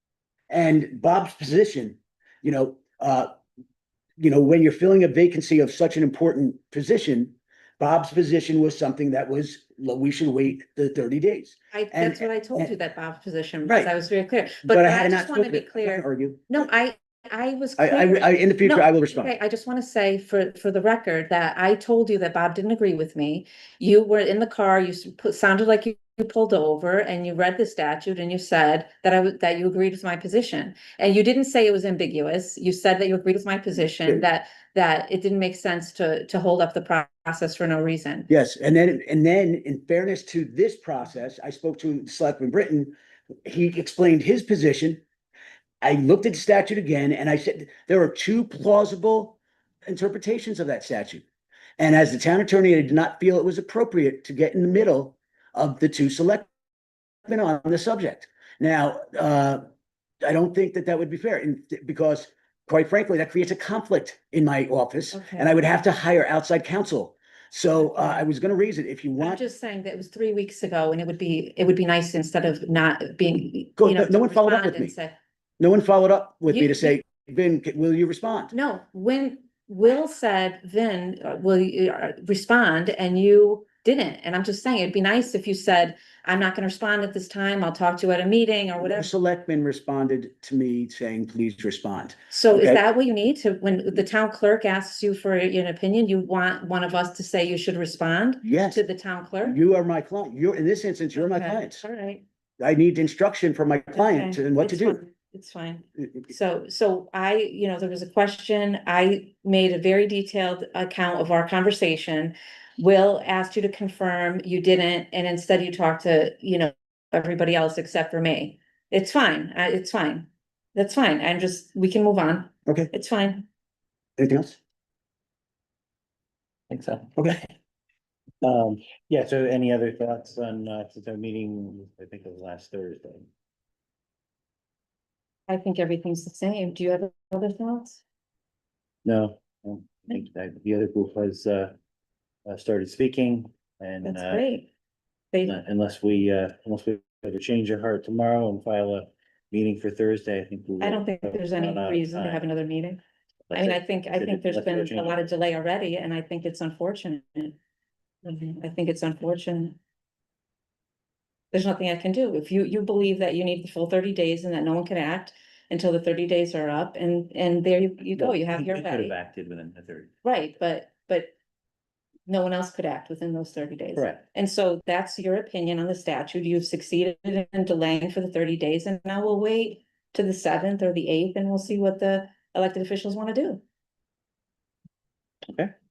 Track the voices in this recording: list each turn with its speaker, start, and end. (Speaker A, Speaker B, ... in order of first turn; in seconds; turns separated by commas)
Speaker A: 0.5-3.4, Speaker A: 4.2-12.7, Speaker B: 11.7-38.3, Speaker A: 13.7-13.9, Speaker A: 14.7-16.4, Speaker A: 17.8-19.3, Speaker A: 38.3-45.0, Speaker A: 45.8-51.2, Speaker A: 51.8-56.5, Speaker A: 57.2-59.7, Speaker A: 60.2-69.4, Speaker B: 65.1-65.5, Speaker B: 67.8-68.3, Speaker B: 69.2-75.2, Speaker A: 73.8-74.9, Speaker A: 75.6-78.5, Speaker B: 76.5-76.9, Speaker B: 78.5-89.1, Speaker A: 88.8-92.8, Speaker B: 92.3-99.6, Speaker A: 98.4-98.8, Speaker A: 99.4-101.8, Speaker B: 101.2-102.2, Speaker A: 102.6-105.0, Speaker B: 103.9-123.5, Speaker A: 124.2-124.6, Speaker C: 126.7-127.2, Speaker A: 127.2-127.5, Speaker C: 128.4-133.3, Speaker B: 135.5-138.0, Speaker C: 139.1-141.7, Speaker C: 142.5-144.4, Speaker B: 144.0-144.7, Speaker C: 145.4-152.4, Speaker B: 150.8-153.0, Speaker C: 153.5-155.2, Speaker B: 153.5-157.6, Speaker B: 158.2-159.8, Speaker B: 161.5-169.2, Speaker C: 168.2-170.1, Speaker B: 170.2-171.3, Speaker B: 172.3-183.6, Speaker C: 173.9-174.2, Speaker C: 185.4-185.7